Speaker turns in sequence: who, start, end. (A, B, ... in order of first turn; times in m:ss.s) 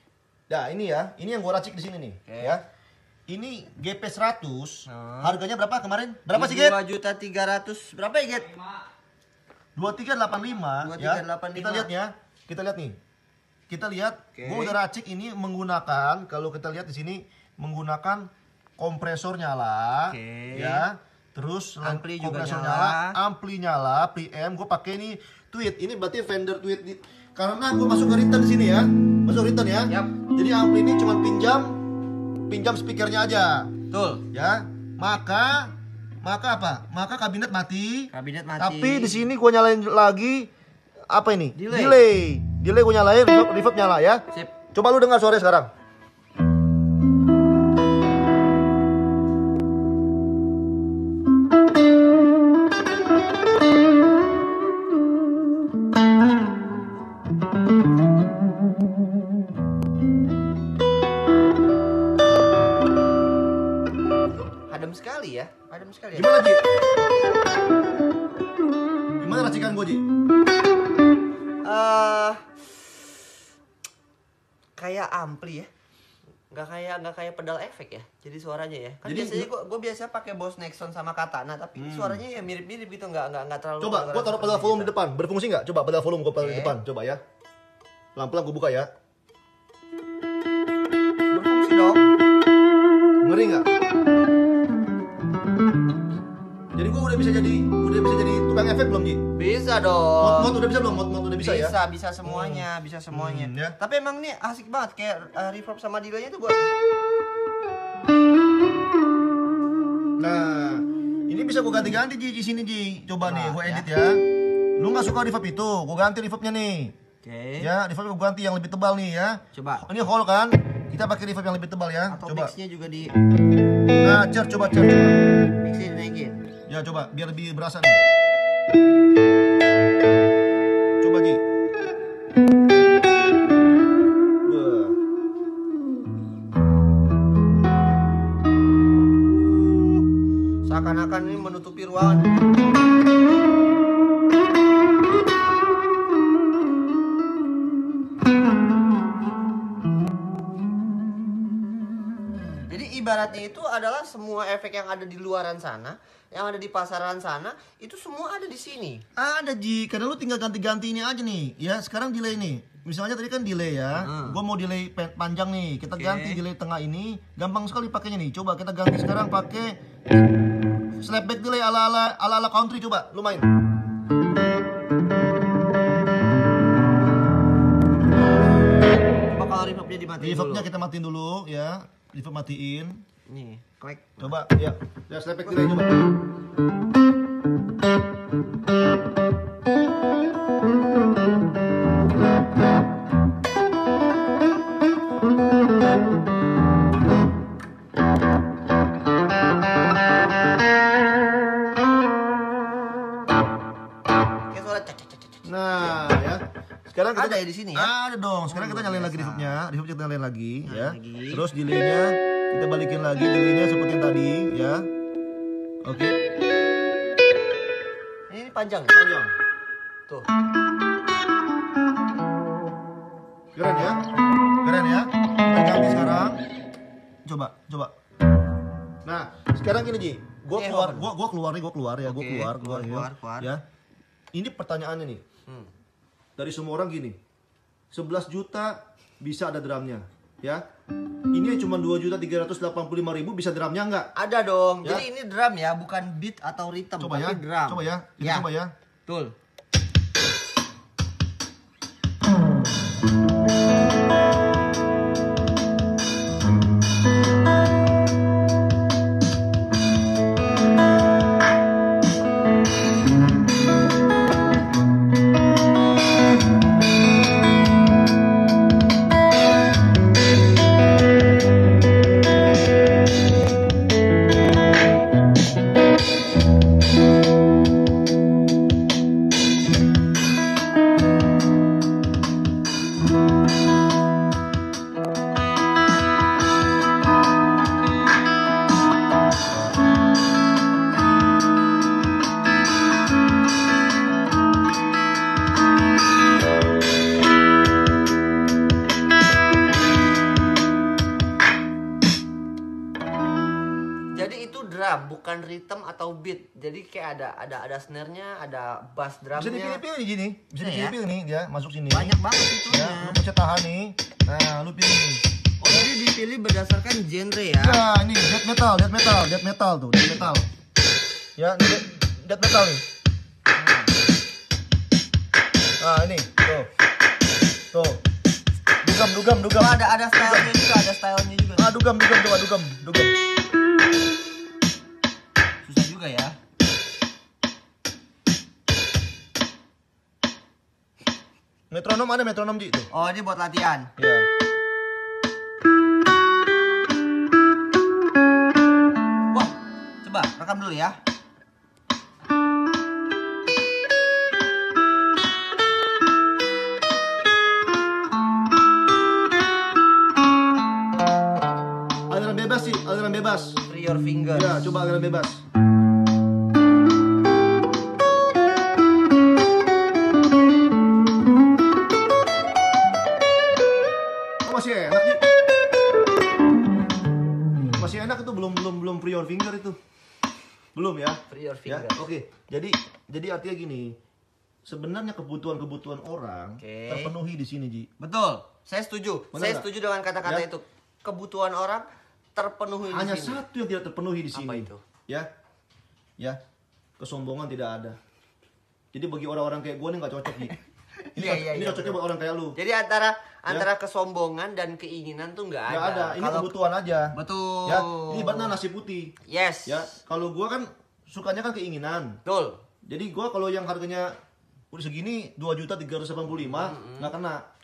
0:00.5-0:02.6 A
0:02.2-0:02.6 B
0:03.3-0:06.8 A
0:04.9-0:05.4 B
0:06.3-0:08.8 B
0:09.8-0:13.0 A
0:10.8-0:11.9 B
0:13.7-0:31.8 A
0:14.3-0:14.8 B
0:20.1-0:20.8 B
0:21.8-0:23.2 B
0:29.9-0:30.1 B
0:32.5-0:33.7 A
0:33.9-0:34.2 B
0:34.3-0:40.5 A
0:38.1-0:39.2 B
0:41.1-0:45.7 A
0:41.5-0:42.0 B
1:04.7-1:06.3 B
1:06.1-1:06.6 A
1:09.2-1:10.0 A
1:11.6-1:13.2 B
1:14.8-1:15.7 B
1:16.5-1:24.9 B
1:19.0-1:19.5 A
1:21.8-1:22.2 A
1:23.8-1:27.2 A
1:26.4-1:26.7 B
1:28.2-1:28.9 A
1:31.3-1:32.1 B
1:33.2-1:33.7 A
1:36.7-1:39.2 A
1:39.4-1:40.6 B
1:40.2-1:43.8 A
1:41.4-1:46.7 B
1:50.2-1:54.2 A
1:53.2-1:53.9 B
1:54.8-1:56.9 A
1:57.2-1:57.7 B
1:57.6-2:02.5 A
1:59.5-1:59.8 B
2:02.1-2:03.1 B
2:04.0-2:05.2 A
2:05.6-2:06.4 B
2:06.7-2:08.0 A
2:11.0-2:11.4 A
2:14.4-2:15.0 A
2:20.6-2:22.4 B
2:32.7-2:39.0 B
2:39.2-2:49.8 A
2:43.9-2:44.4 B
2:46.0-2:46.4 B
2:51.0-2:53.5 A
2:59.3-3:00.7 B
3:00.2-3:03.0 A
3:03.3-3:04.3 B
3:04.2-3:06.0 A
3:05.4-3:05.8 B
3:24.5-3:26.1 B
3:25.4-3:34.9 A
3:27.1-3:27.9 B
3:28.5-3:29.6 B
3:30.6-3:31.4 B
3:35.8-3:36.2 A
3:38.3-3:39.0 B
3:38.9-3:39.3 A
3:43.5-3:44.0 A
3:44.6-3:46.4 A
3:47.2-3:47.9 A
3:49.0-3:53.6 A
3:50.5-3:51.1 B
3:52.0-3:53.5 B
3:54.3-3:55.2 A
3:56.4-3:57.2 A
3:57.9-4:00.6 A
4:01.3-4:04.1 A
4:04.2-4:08.5 B
4:07.0-4:08.7 A
4:09.1-4:09.3 B
5:04.1-5:09.8 B
5:09.4-5:12.2 A
5:10.6-5:11.0 B
5:11.9-5:13.2 B
5:12.7-5:15.8 A
5:15.6-5:17.8 B
5:17.6-5:20.5 A
5:21.4-5:22.8 A
5:23.5-5:23.9 B
5:25.8-5:26.7 A
5:27.7-5:28.0 A
5:28.8-5:30.5 A
5:29.5-5:31.7 B
5:31.6-5:33.2 A
5:35.6-5:36.4 B
5:41.7-5:42.9 A
5:42.9-5:43.9 B
5:44.0-5:44.3 A
5:49.3-5:51.0 B
6:02.1-6:03.6 A
6:03.6-6:04.7 B
6:04.3-6:05.4 A
6:14.4-6:15.2 A
6:17.8-6:19.8 A
6:20.7-6:23.9 A
6:21.3-6:22.1 B
6:24.6-6:27.9 A
6:26.6-6:27.1 B
6:28.0-6:33.4 B
6:29.3-6:29.7 A
6:32.9-6:35.3 A
6:34.3-6:34.8 B
6:37.0-6:38.0 A
6:38.9-6:40.6 A
6:40.4-6:42.0 B
6:41.2-6:42.6 A
6:42.6-6:46.5 B
6:45.7-6:49.1 A
6:47.1-6:48.6 B
6:49.2-6:50.0 B
6:49.6-6:52.2 A
6:52.2-6:52.6 B
6:52.9-6:54.1 A
6:54.7-6:57.4 A
6:56.5-6:57.1 B